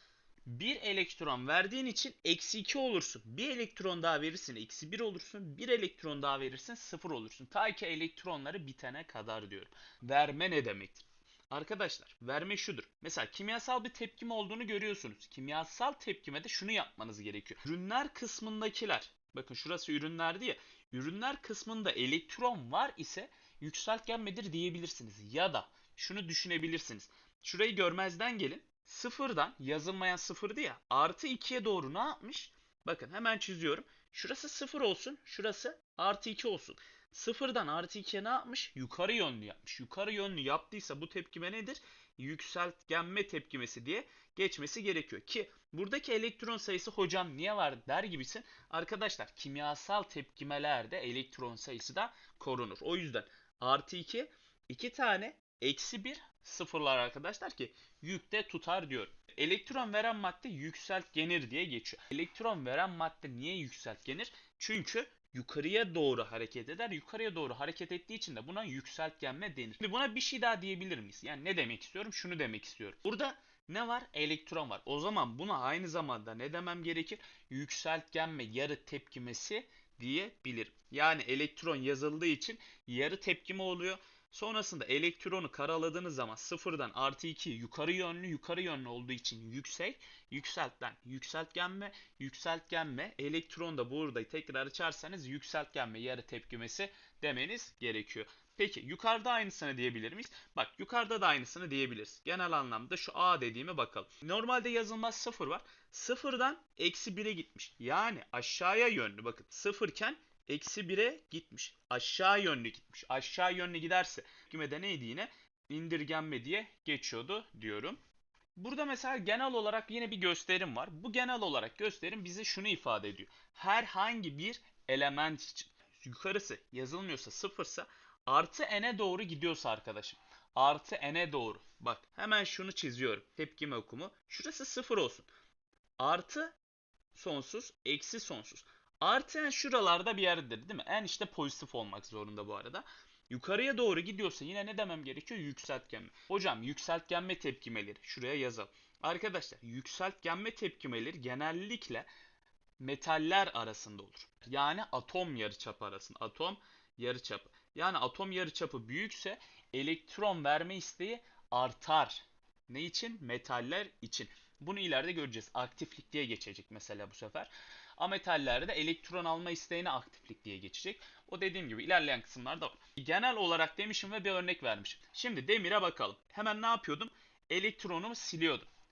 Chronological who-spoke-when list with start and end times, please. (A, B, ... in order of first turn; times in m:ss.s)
0:00.5-1:58.0 A
1:58.6-2:15.3 A
2:16.0-2:16.6 A
2:17.1-2:32.1 A
2:32.8-2:58.7 A